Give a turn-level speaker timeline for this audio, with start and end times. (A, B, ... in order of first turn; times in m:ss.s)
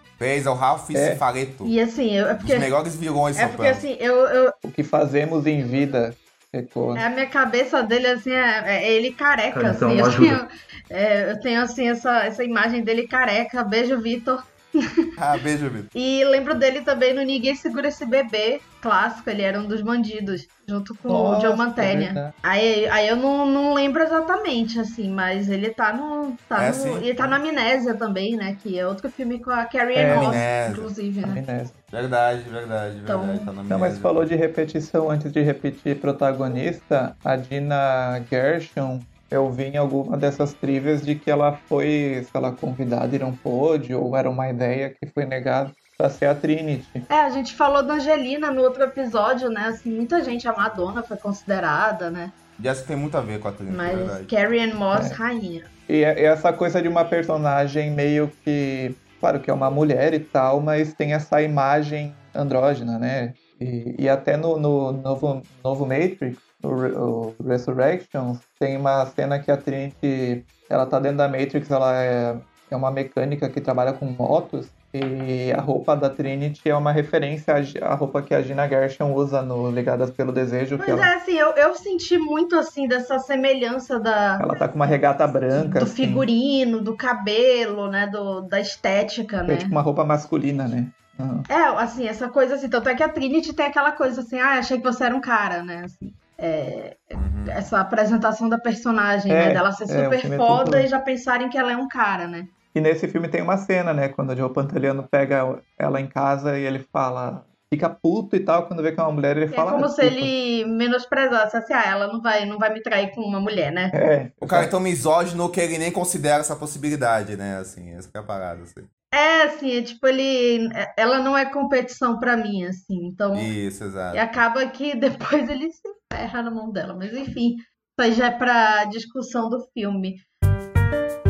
0:00.2-0:01.7 A
0:00.9-0:01.2 B
0:01.6-0:02.7 C
0:02.4-0:03.8 A
0:03.4-0:04.5 C
0:04.6-0:07.0 B
0:07.0-0:14.9 C
0:09.5-0:10.4 B
0:15.2-0:15.9 A
0:15.9-0:31.4 C
0:21.1-0:22.3 B
0:26.6-0:27.4 A
0:29.9-0:30.5 B
0:30.0-0:30.9 A
0:31.2-0:31.8 B
0:31.9-0:34.2 A
0:33.1-0:33.5 C
0:33.7-0:47.0 B
0:47.1-0:52.3 C
0:52.6-0:54.3 A
0:53.7-0:55.7 C
0:54.9-0:55.2 B
0:55.9-1:21.1 B
1:20.8-1:24.6 C
1:24.4-1:26.2 B
1:25.5-1:29.7 C
1:29.4-1:31.4 B
1:31.5-1:42.5 C
1:37.2-1:37.6 A
1:39.3-1:40.9 B
1:42.7-1:50.3 B
1:49.5-1:53.9 C
1:53.9-1:54.7 B
1:54.4-1:58.9 A
1:59.1-2:03.5 C
2:03.3-2:04.2 A
2:04.1-2:10.2 C